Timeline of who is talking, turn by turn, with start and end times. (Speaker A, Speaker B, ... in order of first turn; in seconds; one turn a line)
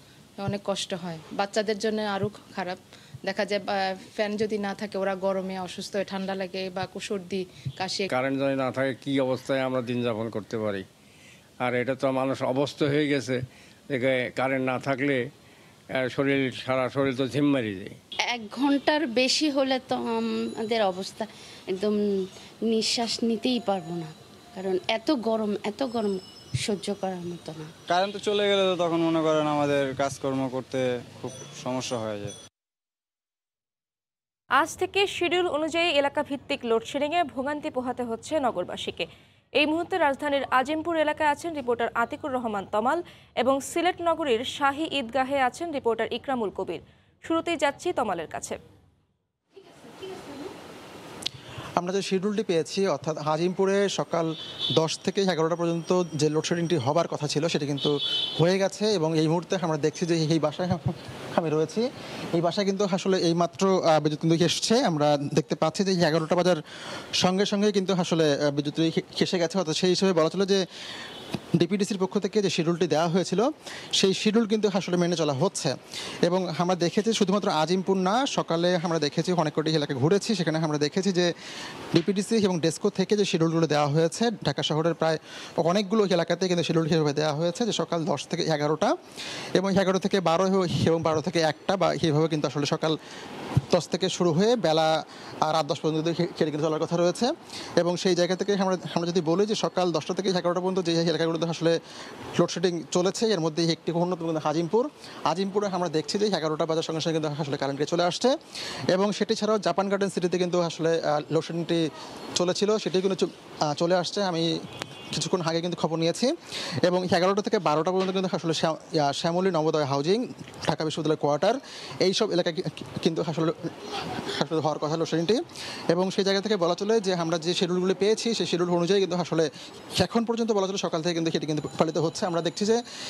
Speaker A: 0.4-8.1
Speaker B: 8.2-10.8
Speaker B: 11.7-13.3
Speaker B: 14.0-15.1
Speaker B: 16.1-17.9
Speaker C: 18.3-22.0
Speaker C: 22.7-27.7
Speaker D: 28.0-30.7
Speaker E: 34.6-39.0
Speaker E: 39.6-48.6
Speaker F: 51.8-61.8
Speaker F: 62.3-66.6
Speaker F: 67.2-70.6
Speaker F: 71.6-73.5
Speaker F: 74.0-81.3
Speaker F: 81.9-88.9
Speaker F: 89.5-93.0
Speaker F: 93.7-94.9
Speaker F: 95.5-101.8
Speaker F: 102.4-108.3
Speaker F: 108.9-111.8
Speaker F: 112.3-114.5
Speaker F: 115.1-116.3
Speaker F: 116.8-123.7
Speaker F: 124.3-125.4
Speaker F: 125.9-129.5
Speaker F: 130.0-132.8